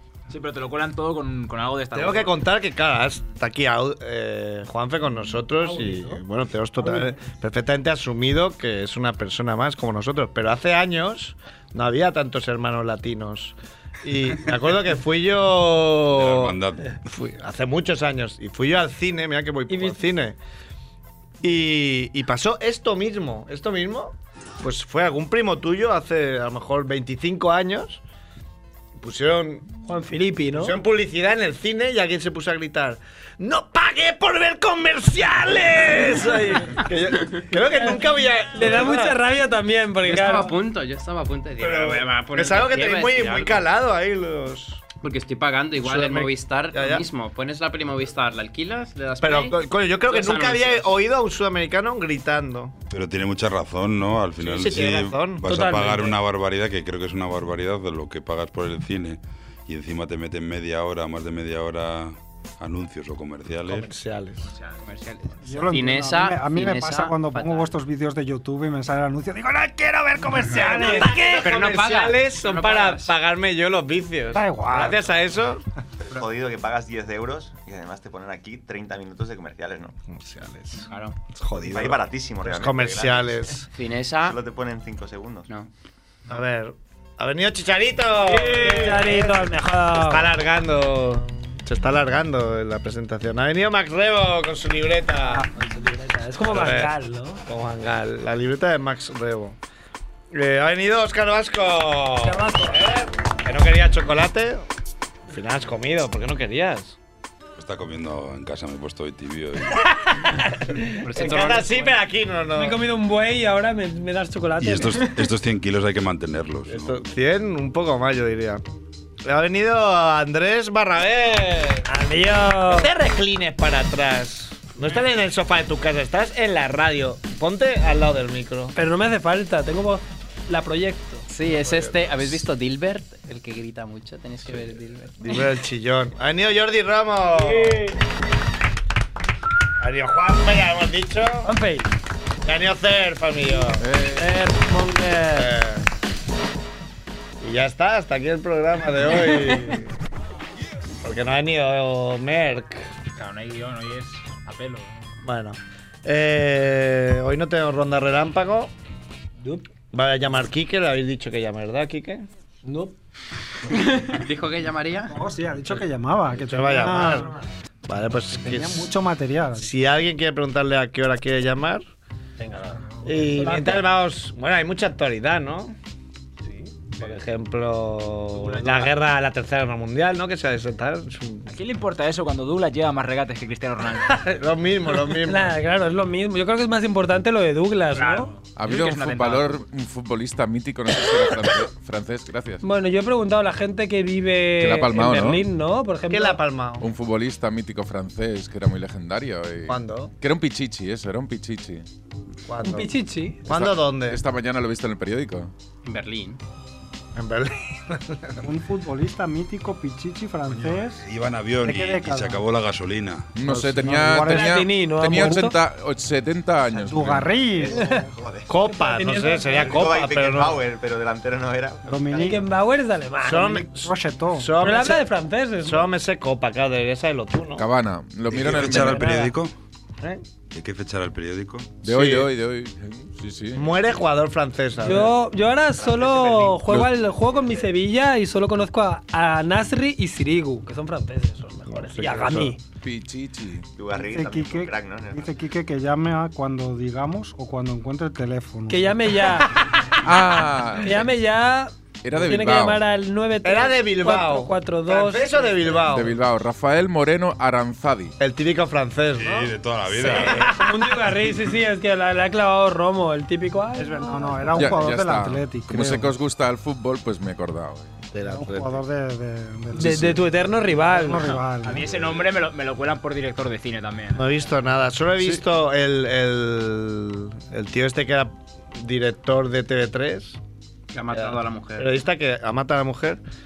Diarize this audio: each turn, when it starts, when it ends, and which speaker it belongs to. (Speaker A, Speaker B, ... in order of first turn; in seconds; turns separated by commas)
Speaker A: 0.3-2.3, Speaker B: 1.9-20.4, Speaker C: 5.6-6.2, Speaker C: 6.8-7.1, Speaker D: 16.1-16.9, Speaker C: 19.7-20.0, Speaker B: 21.4-28.0, Speaker B: 28.9-29.7, Speaker C: 29.9-30.8, Speaker B: 30.5-39.2, Speaker C: 38.5-40.5, Speaker E: 40.0-43.7, Speaker B: 41.6-44.9, Speaker E: 45.0-51.0, Speaker B: 45.8-47.0, Speaker B: 49.2-52.7, Speaker D: 52.9-63.9, Speaker B: 54.4-55.5, Speaker C: 55.4-56.2, Speaker B: 63.7-64.5, Speaker A: 64.4-65.7, Speaker E: 64.9-67.7, Speaker F: 65.4-71.5, Speaker B: 70.5-75.6, Speaker E: 70.8-73.1, Speaker F: 74.3-75.0, Speaker G: 76.1-80.0, Speaker B: 80.1-83.7, Speaker E: 80.9-81.2, Speaker G: 81.5-83.6, Speaker E: 83.7-84.4, Speaker G: 84.2-85.5, Speaker B: 86.3-95.5, Speaker C: 88.2-90.3, Speaker C: 95.2-97.4, Speaker B: 96.4-96.9, Speaker B: 97.5-99.6, Speaker B: 100.3-104.7, Speaker C: 102.2-102.9, Speaker B: 105.3-107.0, Speaker D: 107.6-109.8, Speaker B: 109.8-110.4, Speaker E: 111.0-112.0, Speaker B: 111.1-112.8, Speaker C: 112.5-115.2, Speaker D: 114.6-117.0, Speaker B: 116.7-118.6, Speaker B: 119.2-121.9, Speaker C: 121.9-122.9, Speaker B: 122.7-128.8, Speaker C: 128.7-131.3, Speaker E: 131.3-135.4, Speaker B: 131.4-132.4, Speaker B: 135.2-137.9, Speaker C: 137.5-137.9, Speaker B: 139.8-141.5, Speaker C: 141.4-141.9, Speaker B: 142.4-143.9, Speaker H: 143.8-144.3, Speaker C: 144.2-145.5, Speaker B: 145.3-145.8, Speaker B: 147.4-149.9, Speaker B: 151.0-152.9, Speaker A: 153.1-154.9, Speaker B: 155.2-158.7, Speaker B: 159.9-162.2, Speaker C: 162.6-162.9, Speaker E: 163.7-165.2, Speaker F: 165.1-167.3, Speaker B: 166.3-167.3, Speaker C: 167.0-167.4, Speaker B: 167.8-168.9, Speaker F: 168.1-169.7, Speaker B: 169.6-171.8, Speaker C: 172.4-173.9, Speaker B: 173.0-175.8, Speaker B: 177.0-181.5, Speaker A: 181.5-184.2, Speaker B: 184.1-185.6, Speaker C: 185.2-188.3, Speaker A: 187.9-189.6, Speaker H: 188.6-192.6, Speaker C: 192.6-196.4, Speaker H: 194.6-195.4, Speaker B: 196.1-196.9, Speaker H: 196.8-201.8, Speaker B: 199.7-200.1, Speaker B: 202.4-204.2, Speaker C: 202.6-203.4, Speaker H: 203.5-205.5, Speaker E: 205.8-206.4, Speaker B: 207.1-208.4, Speaker F: 208.4-211.0, Speaker D: 210.5-213.3, Speaker F: 211.6-212.4, Speaker H: 213.3-217.4, Speaker F: 213.4-215.5, Speaker C: 214.2-215.6, Speaker F: 216.7-218.0, Speaker G: 217.5-218.5, Speaker C: 217.7-218.0, Speaker B: 218.5-220.6, Speaker C: 218.6-219.8, Speaker G: 219.6-222.1, Speaker F: 221.8-222.4, Speaker C: 222.1-223.7, Speaker B: 223.2-227.7, Speaker F: 223.7-224.5, Speaker C: 224.6-225.9, Speaker H: 227.6-229.1, Speaker B: 228.3-228.9, Speaker D: 228.3-229.5, Speaker C: 228.8-229.3, Speaker D: 230.5-231.8, Speaker B: 231.8-232.3, Speaker H: 231.8-233.9, Speaker B: 233.5-235.1, Speaker C: 234.8-242.6, Speaker G: 235.8-236.5, Speaker B: 241.7-242.6, Speaker H: 242.8-243.7, Speaker G: 243.8-245.3, Speaker F: 243.9-249.3, Speaker C: 248.7-249.8, Speaker H: 250.0-251.1, Speaker C: 250.8-255.7, Speaker H: 252.0-252.8, Speaker B: 253.4-256.1, Speaker H: 255.8-258.1, Speaker B: 258.2-259.5, Speaker D: 259.1-261.6, Speaker C: 259.2-264.7, Speaker B: 260.0-260.6, Speaker F: 263.7-266.1, Speaker H: 264.5-268.0, Speaker B: 268.1-268.8, Speaker F: 268.2-271.9, Speaker C: 269.7-271.4, Speaker A: 271.6-274.3, Speaker B: 274.1-280.4, Speaker E: 280.9-281.9, Speaker B: 281.1-283.2